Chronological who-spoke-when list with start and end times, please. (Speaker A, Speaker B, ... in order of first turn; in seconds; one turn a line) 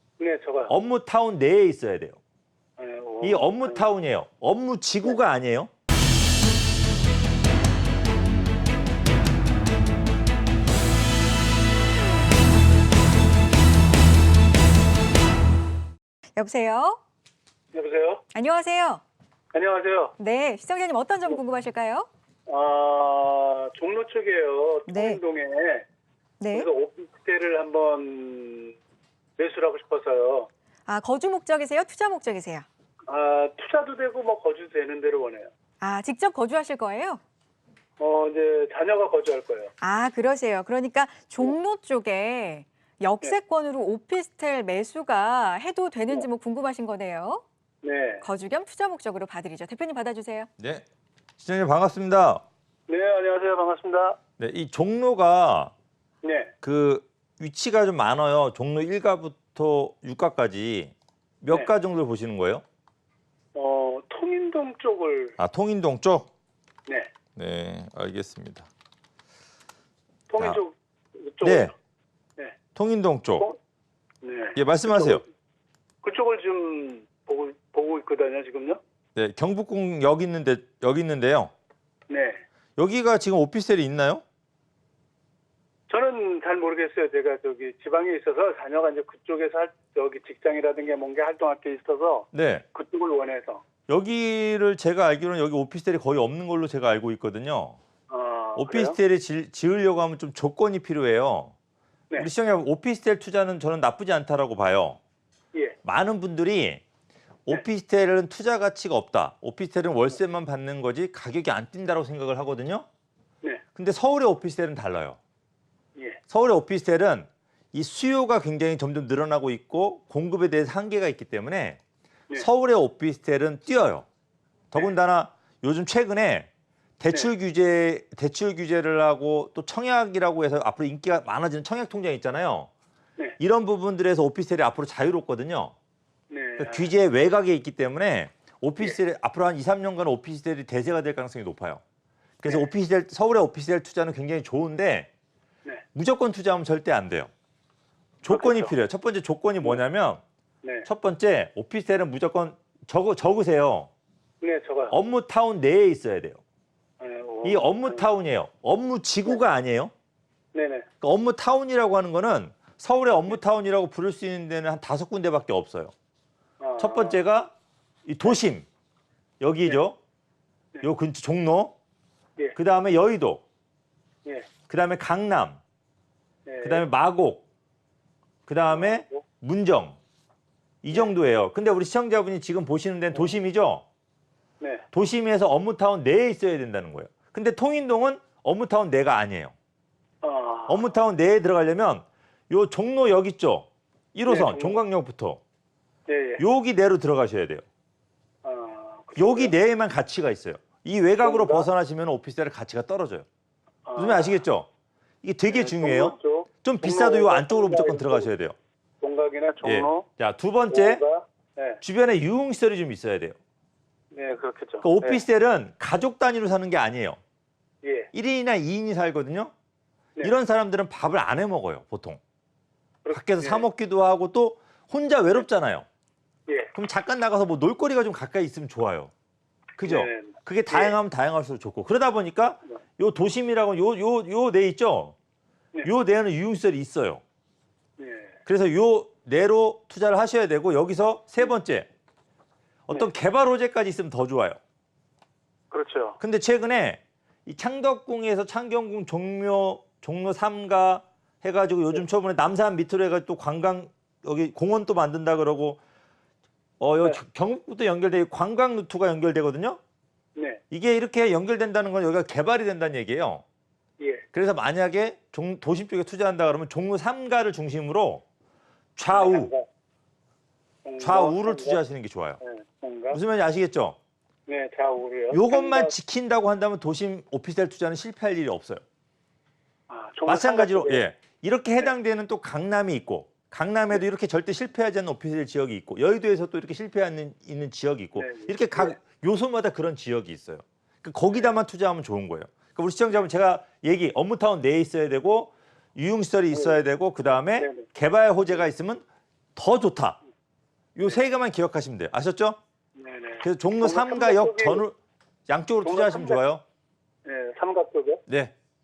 Speaker A: 0.2-0.7
Speaker B: 0.7-2.2
Speaker A: 2.8-3.9
Speaker B: 3.2-5.7
Speaker C: 16.4-17.0
Speaker C: 17.8-19.0
Speaker A: 17.8-18.1
Speaker A: 19.6-20.0
Speaker C: 20.0-22.5
Speaker A: 22.6-25.8
Speaker C: 24.8-25.2
Speaker C: 26.4-26.7
Speaker A: 26.5-28.7
Speaker A: 29.4-30.4
Speaker C: 30.9-32.6
Speaker A: 33.1-35.5
Speaker C: 35.8-37.2
Speaker A: 38.0-39.6
Speaker C: 39.6-47.4
Speaker A: 47.8-48.2
Speaker C: 48.2-50.5
Speaker B: 50.6-50.9
Speaker B: 51.4-52.4
Speaker A: 52.9-54.2
Speaker B: 54.4-55.7
Speaker A: 56.2-56.5
Speaker B: 56.6-62.6
Speaker A: 63.5-65.4
Speaker B: 65.4-66.3
Speaker B: 67.3-68.7
Speaker A: 70.3-71.7
Speaker B: 71.4-71.7
Speaker B: 72.7-73.5
Speaker A: 74.2-75.2
Speaker B: 74.5-75.2
Speaker A: 76.0-78.8
Speaker B: 79.2-81.5
Speaker A: 82.1-82.4
Speaker B: 82.8-84.2
Speaker A: 85.9-93.6
Speaker B: 92.3-92.6
Speaker B: 93.9-97.8
Speaker A: 98.1-99.0
Speaker B: 98.5-101.5
Speaker B: 102.2-105.0
Speaker B: 105.8-106.8
Speaker B: 107.5-112.8
Speaker B: 113.7-115.2
Speaker A: 116.0-116.2
Speaker B: 116.3-121.8
Speaker B: 122.3-124.1
Speaker B: 124.7-132.7
Speaker B: 133.4-135.7
Speaker A: 136.3-136.9
Speaker B: 136.6-141.8
Speaker B: 142.4-145.1
Speaker B: 145.9-147.3
Speaker B: 148.2-150.2
Speaker A: 148.3-148.7
Speaker B: 150.8-153.9
Speaker A: 154.4-154.9
Speaker B: 154.9-156.4
Speaker A: 157.0-158.1
Speaker B: 157.4-159.9
Speaker A: 160.5-160.9
Speaker B: 161.0-165.9
Speaker A: 166.6-167.2
Speaker B: 166.8-167.5
Speaker B: 168.1-168.7
Speaker B: 169.4-170.0
Speaker B: 170.8-171.7
Speaker B: 172.5-173.4
Speaker A: 174.2-174.5
Speaker B: 174.7-175.6
Speaker A: 176.4-176.8
Speaker B: 176.6-177.4
Speaker B: 178.5-180.0
Speaker A: 178.7-179.2
Speaker B: 180.8-183.8
Speaker A: 184.6-184.8
Speaker B: 184.9-189.5
Speaker A: 190.2-190.9
Speaker B: 190.7-195.4
Speaker A: 194.3-194.8
Speaker A: 196.1-196.4
Speaker B: 196.4-197.6
Speaker A: 198.4-199.5
Speaker B: 199.2-203.3
Speaker A: 201.2-201.7
Speaker A: 203.8-204.4
Speaker B: 204.0-204.7
Speaker B: 205.2-208.5
Speaker A: 205.5-208.3
Speaker A: 209.0-210.1
Speaker B: 209.6-211.0
Speaker A: 210.7-211.8
Speaker B: 211.8-213.4
Speaker A: 214.1-215.2
Speaker B: 214.8-217.2
Speaker A: 217.8-218.1
Speaker B: 218.1-219.5
Speaker B: 220.2-222.2
Speaker A: 223.0-223.7
Speaker B: 223.1-225.8
Speaker A: 226.5-226.7
Speaker B: 226.7-229.1
Speaker B: 229.8-235.2
Speaker A: 229.8-231.0
Speaker B: 235.8-237.2
Speaker A: 238.0-238.4
Speaker B: 238.4-241.9
Speaker B: 242.9-244.6
Speaker A: 245.7-246.2
Speaker B: 246.2-255.8
Speaker B: 256.8-259.8
Speaker A: 260.3-260.6
Speaker B: 260.7-263.4
Speaker A: 264.0-264.2
Speaker B: 264.3-268.2
Speaker B: 268.9-269.5
Speaker A: 269.1-269.7
Speaker A: 270.8-271.8
Speaker B: 271.0-272.4
Speaker A: 272.4-273.2
Speaker B: 273.1-274.0
Speaker A: 274.5-275.9
Speaker B: 275.3-278.8
Speaker A: 279.9-281.1
Speaker B: 280.3-299.0
Speaker A: 288.2-289.0
Speaker A: 291.3-291.6
Speaker A: 296.5-296.8
Speaker A: 297.6-297.9
Speaker B: 299.6-300.2
Speaker B: 300.9-302.6
Speaker A: 302.9-304.8
Speaker B: 303.4-304.9
Speaker B: 305.5-306.6
Speaker A: 305.8-306.4
Speaker A: 307.2-308.2
Speaker B: 308.3-308.5